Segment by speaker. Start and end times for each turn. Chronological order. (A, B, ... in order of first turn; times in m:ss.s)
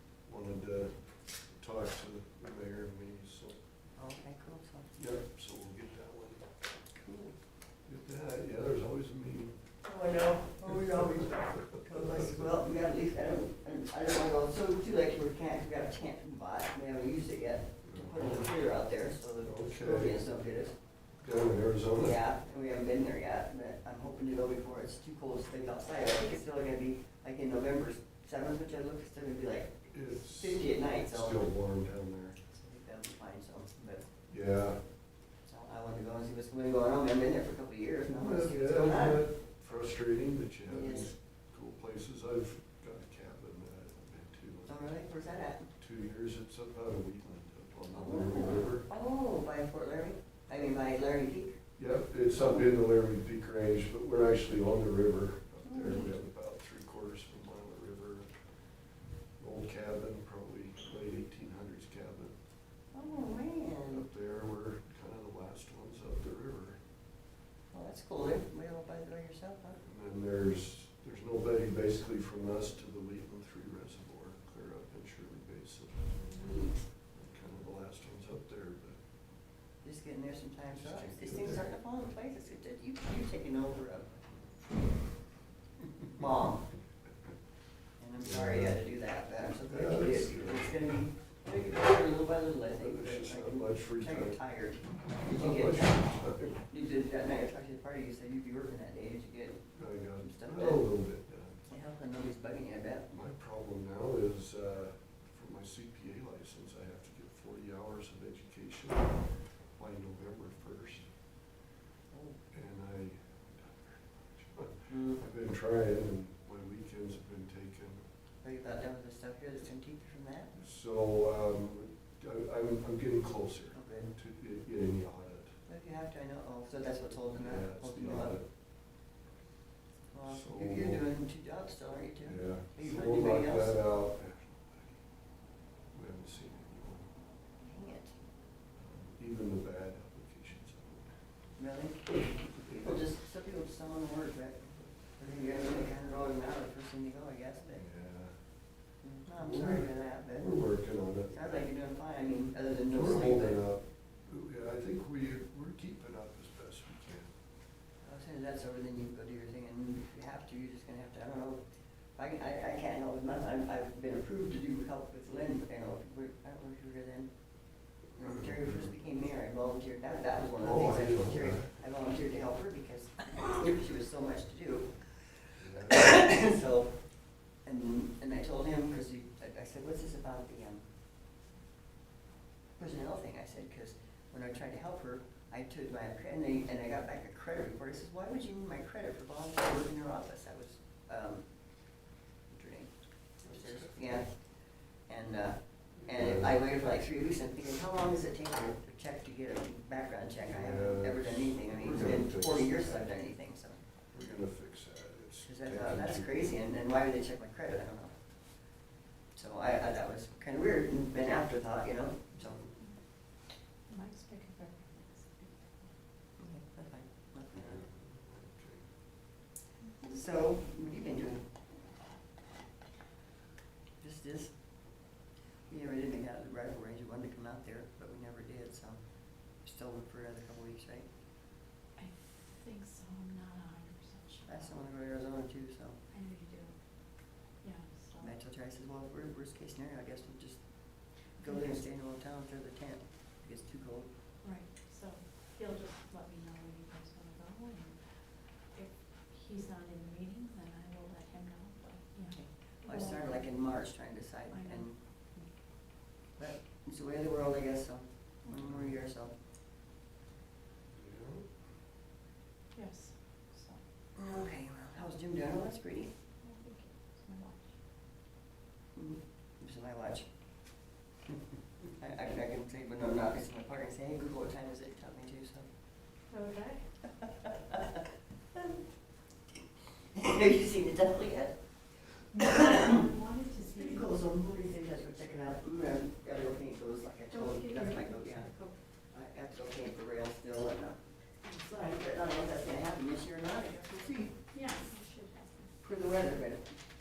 0:00.2-0:01.0 A
0:01.5-0:03.6 A
0:04.0-0:04.9 B
0:05.0-0:06.5 A
0:06.9-0:07.4 B
0:07.8-0:09.6 A
0:09.8-0:20.8 B
0:10.6-0:11.1 A
0:11.9-0:12.5 A
0:17.8-0:18.5 A
0:19.4-0:20.2 A
0:21.2-0:22.2 A
0:22.0-0:31.5 B
0:29.9-0:32.4 A
0:32.5-0:34.1 B
0:34.3-0:34.8 A
0:35.4-0:39.2 B
0:38.2-0:45.0 A
0:40.7-0:41.1 B
0:44.6-0:45.7 B
0:45.8-0:48.9 A
0:47.9-0:51.6 B
0:51.8-0:58.3 A
0:52.4-0:52.6 B
0:55.6-0:56.1 B
0:59.4-1:02.3 A
1:02.9-1:04.0 B
1:03.9-1:06.8 A
1:07.7-1:09.8 B
1:09.8-1:19.0 A
1:16.3-1:16.8 B
1:19.8-1:24.2 B
1:20.7-1:21.7 A
1:26.1-1:26.7 B
1:28.0-1:40.8 B
1:28.2-1:28.8 A
1:29.6-1:30.7 A
1:32.8-1:34.4 A
1:35.2-1:36.6 A
1:39.7-1:41.6 A
1:41.7-1:43.1 B
1:43.1-1:49.2 A
1:49.8-1:51.1 A
1:52.1-1:52.4 B
1:52.5-1:58.0 A
1:54.9-1:55.2 B
1:58.4-2:00.5 B
2:00.5-2:05.5 A
2:03.7-2:04.1 B
2:05.7-2:08.4 B
2:07.4-2:08.5 A
2:10.1-2:13.8 B
2:10.3-2:11.0 A
2:12.2-2:15.0 A
2:15.9-2:17.1 A
2:17.6-2:18.2 B
2:18.8-2:21.1 A
2:21.6-2:27.8 B
2:27.8-2:28.3 A
2:29.0-2:30.6 B
2:29.4-2:31.6 A
2:31.3-2:33.6 B
2:32.9-2:37.3 A
2:38.0-2:41.6 B
2:42.2-2:55.3 B
2:48.2-2:48.9 A
2:50.6-2:51.8 A
2:55.6-2:56.3 A
2:55.8-3:00.8 B
3:02.8-3:23.8 B
3:13.4-3:14.0 A
3:16.0-3:16.5 A
3:20.5-3:23.1 A
3:24.1-3:26.3 A
3:25.4-3:28.2 B
3:29.3-3:32.6 B
3:32.8-3:33.2 C
3:33.8-3:35.9 C
3:36.4-3:37.8 B
3:37.5-3:38.9 A
3:39.8-3:40.1 C
3:40.0-3:41.5 B
3:44.0-3:45.1 B
3:45.7-3:51.1 B
3:52.0-3:54.8 C
3:54.5-3:56.0 B
3:56.1-3:58.4 C
3:58.2-4:04.1 B
4:01.4-4:01.8 C
4:04.4-4:13.8 C
4:12.3-4:15.0 B
4:14.5-4:15.5 C
4:16.3-4:19.3 B
4:18.6-4:18.9 A
4:20.9-4:21.5 A
4:22.7-4:23.8 C
4:24.2-4:26.1 B
4:26.4-4:27.7 C
4:28.9-4:30.3 B
4:32.0-4:35.7 B
4:36.3-4:37.1 C
4:37.4-4:38.0 B
4:40.1-4:43.1 B
4:42.3-4:44.1 C
4:43.7-4:51.1 B
4:47.3-4:48.7 C
4:51.4-4:52.0 C
4:51.7-4:54.4 B
4:54.5-4:55.7 C
4:55.8-4:56.8 B